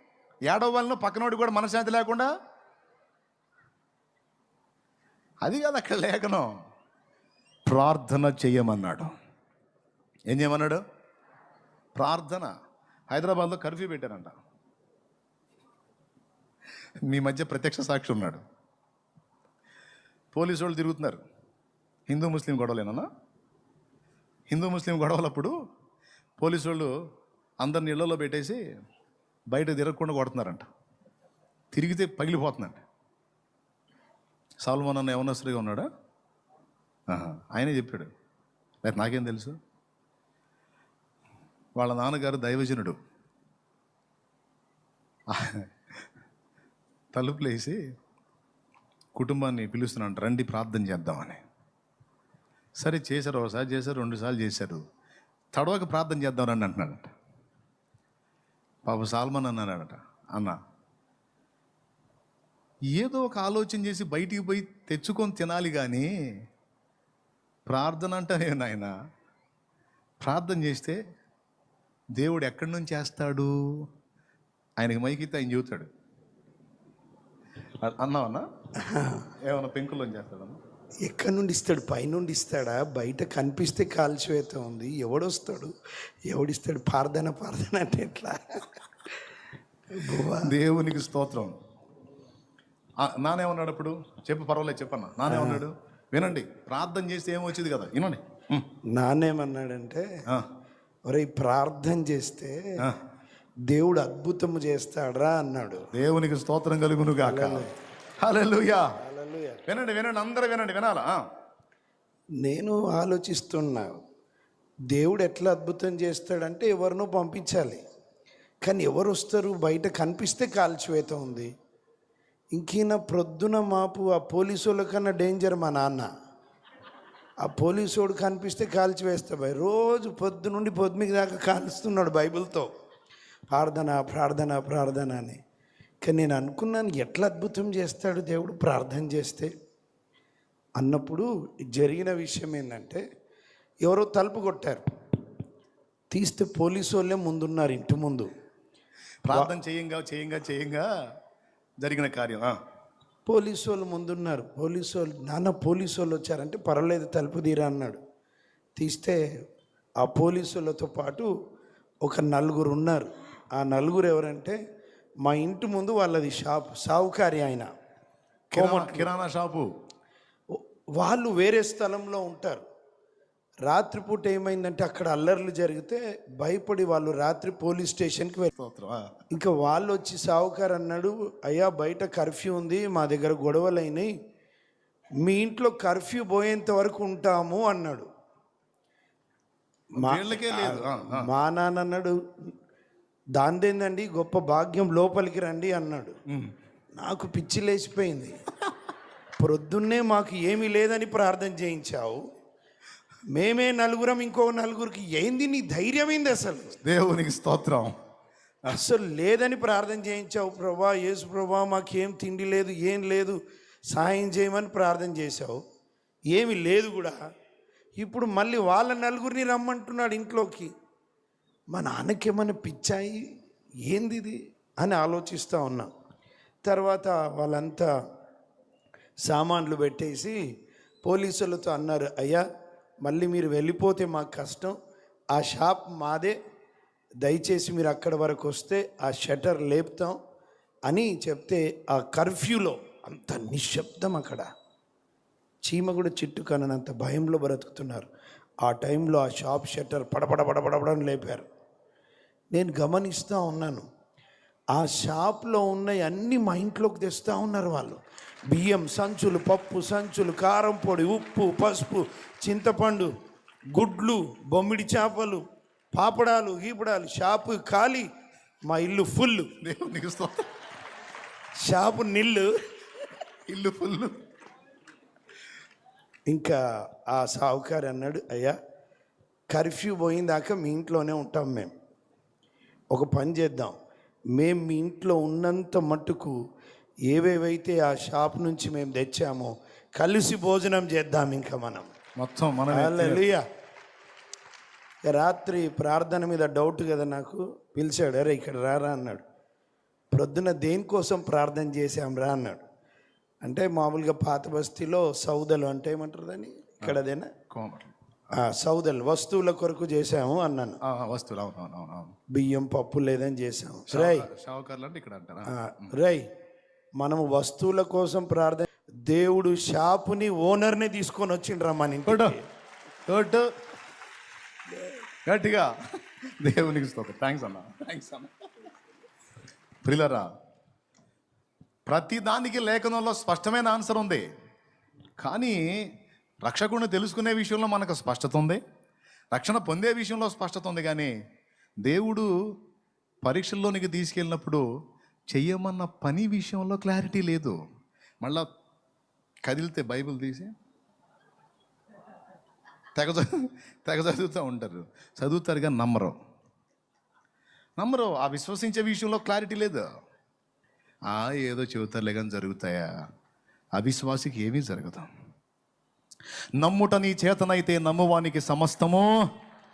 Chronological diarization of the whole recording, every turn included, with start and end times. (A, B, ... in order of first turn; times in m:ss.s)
0:00.5-0:02.3 A
0:05.4-0:06.5 A
0:07.7-0:09.1 A
0:10.3-0:10.8 A
0:11.9-0:12.5 A
0:13.1-0:14.3 A
0:17.0-0:18.4 A
0:20.3-0:21.2 A
0:22.1-0:23.1 A
0:24.5-0:25.5 A
0:26.4-0:26.9 A
0:27.6-0:28.6 A
0:29.5-0:30.6 A
0:31.7-0:32.8 A
0:34.6-0:35.9 A
0:37.1-0:38.1 A
0:38.8-0:39.6 A
0:41.8-0:43.0 A
0:45.3-0:45.6 A
0:47.1-0:47.8 A
0:49.2-0:51.4 A
0:52.8-0:54.8 A
0:55.5-0:57.1 A
0:58.8-1:00.6 A
1:02.9-1:06.1 A
1:07.6-1:08.9 A
1:10.2-1:11.0 A
1:12.2-1:13.8 A
1:14.8-1:15.9 A
1:17.8-1:18.4 A
1:18.8-1:19.2 B
1:19.4-1:20.6 A
1:21.0-1:25.7 B
1:26.3-1:28.6 B
1:29.9-1:30.5 B
1:30.4-1:31.6 A
1:33.0-1:38.7 A
1:35.2-1:35.6 B
1:38.9-1:40.0 B
1:41.1-1:42.6 B
1:43.7-1:45.9 B
1:45.9-1:47.7 A
1:47.2-1:47.7 B
1:48.2-1:48.9 A
1:49.0-1:49.6 B
1:49.7-1:51.2 A
1:52.4-1:54.0 B
1:54.9-1:57.8 B
1:58.6-2:01.5 B
2:02.5-2:06.1 B
2:07.4-2:12.7 B
2:13.5-2:15.4 B
2:16.0-2:19.5 B
2:20.8-2:23.0 B
2:23.8-2:24.8 B
2:26.1-2:28.3 B
2:29.2-2:30.8 A
2:31.8-2:32.6 A
2:33.2-2:38.0 B
2:38.8-2:39.2 B
2:40.0-2:41.3 B
2:42.0-2:44.6 B
2:45.2-2:47.7 B
2:48.5-2:49.1 B
2:48.5-2:49.7 A
2:50.5-2:52.6 B
2:53.6-2:58.5 B
2:58.5-2:59.1 A
2:59.3-3:04.1 B
3:05.2-3:08.1 B
3:10.0-3:11.2 A
3:10.0-3:12.2 B
3:13.4-3:16.2 B
3:17.0-3:18.4 B
3:19.4-3:22.2 B
3:23.3-3:26.8 B
3:26.8-3:27.9 A
3:28.7-3:33.4 B
3:33.9-3:35.6 B
3:36.3-3:37.2 B
3:38.0-3:40.7 B
3:41.7-3:43.2 B
3:43.9-3:45.9 B
3:46.6-3:47.9 B
3:49.2-3:50.4 B
3:51.0-3:52.4 B
3:53.0-3:54.8 B
3:55.3-3:56.4 B
3:57.2-4:00.2 B
4:00.9-4:04.5 B
4:05.6-4:08.1 B
4:08.6-4:11.5 B
4:12.5-4:13.9 B
4:14.7-4:23.1 B
4:23.7-4:25.4 B
4:25.9-4:28.1 B
4:28.7-4:29.5 B
4:29.6-4:30.4 A
4:31.6-4:32.5 B
4:33.5-4:34.2 A
4:36.3-4:36.6 B
4:37.1-4:38.6 B
4:39.5-4:41.7 B
4:42.9-4:43.8 B
4:44.3-4:46.3 B
4:47.1-4:51.9 B
4:52.2-4:53.2 A
4:52.7-4:53.4 B
4:55.1-4:59.2 B
5:00.1-5:02.6 B
5:03.4-5:07.3 B
5:07.5-5:07.9 A
5:08.4-5:10.8 B
5:10.8-5:12.1 A
5:12.3-5:14.3 B
5:13.9-5:15.9 A
5:15.5-5:16.3 B
5:17.0-5:22.4 B
5:22.0-5:22.4 A
5:23.1-5:23.4 A
5:25.2-5:25.7 A
5:26.4-5:28.3 A
5:29.8-5:30.3 A
5:31.9-5:34.2 A
5:35.2-5:35.6 A
5:36.4-5:38.6 A
5:39.3-5:41.1 A
5:41.8-5:42.3 A
5:43.2-5:44.6 A
5:45.3-5:47.6 A
5:49.4-5:50.5 A
5:53.0-5:56.1 A
5:57.8-5:59.8 A
6:01.1-6:02.9 A
6:03.8-6:05.1 A
6:06.6-6:09.1 A